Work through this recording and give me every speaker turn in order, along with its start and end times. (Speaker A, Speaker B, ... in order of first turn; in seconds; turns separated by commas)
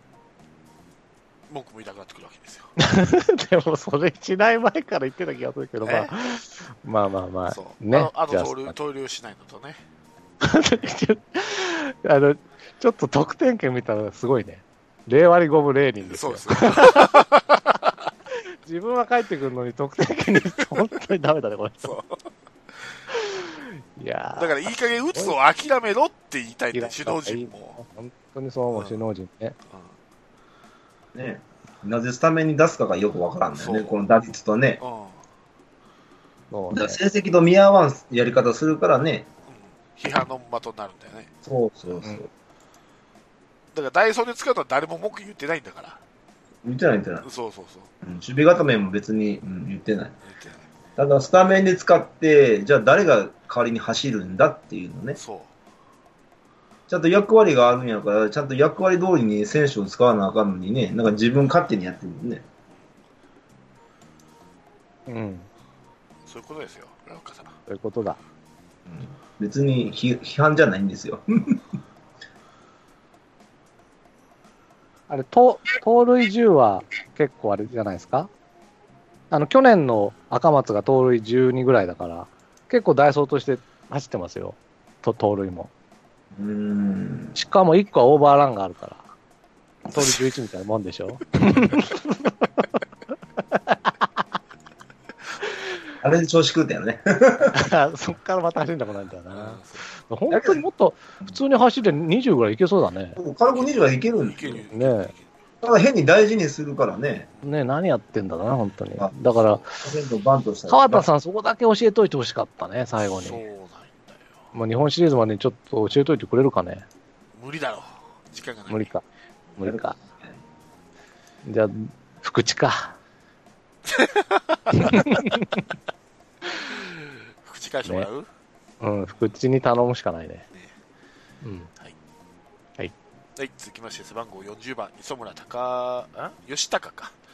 Speaker A: 1.5-2.7, Speaker B: 2.8-8.7, Speaker A: 5.8-6.1, Speaker A: 7.5-9.8, Speaker B: 10.4-17.1, Speaker A: 16.0-18.1, Speaker B: 18.6-21.9, Speaker A: 21.8-22.2, Speaker B: 23.1-25.4, Speaker A: 24.3-27.8, Speaker B: 26.7-29.6, Speaker A: 28.7-29.0, Speaker A: 29.7-30.0, Speaker C: 31.1-34.8, Speaker A: 33.5-34.0, Speaker A: 34.8-35.2, Speaker B: 36.5-37.0, Speaker C: 36.7-39.3, Speaker A: 39.5-41.3, Speaker C: 41.4-42.3, Speaker A: 43.7-46.0, Speaker C: 46.6-47.3, Speaker A: 47.2-47.9, Speaker C: 48.0-50.2, Speaker A: 50.2-50.7, Speaker C: 51.0-55.2, Speaker A: 55.1-55.5, Speaker C: 56.9-62.4, Speaker B: 65.1-65.5, Speaker A: 66.2-67.6, Speaker B: 67.7-68.2, Speaker C: 68.9-71.6, Speaker B: 75.1-78.3, Speaker B: 79.3-85.7, Speaker C: 86.3-87.3, Speaker B: 87.3-89.1, Speaker B: 89.9-92.7, Speaker B: 93.4-94.2, Speaker C: 96.0-97.6, Speaker B: 97.5-103.2, Speaker A: 99.3-99.8, Speaker C: 100.3-100.6, Speaker C: 103.2-104.6, Speaker A: 103.5-105.3, Speaker B: 104.7-105.1, Speaker C: 105.6-107.3, Speaker B: 107.4-109.6, Speaker A: 109.3-109.7, Speaker C: 109.8-111.0, Speaker B: 110.7-113.4, Speaker A: 113.1-114.4, Speaker B: 114.5-116.8, Speaker A: 117.3-118.9, Speaker B: 118.7-119.0, Speaker B: 119.6-120.0, Speaker C: 119.6-120.3, Speaker B: 121.4-123.0, Speaker A: 123.8-125.2, Speaker B: 124.7-125.6, Speaker A: 126.6-128.3, Speaker B: 128.8-130.4, Speaker B: 131.4-131.7, Speaker A: 133.3-137.1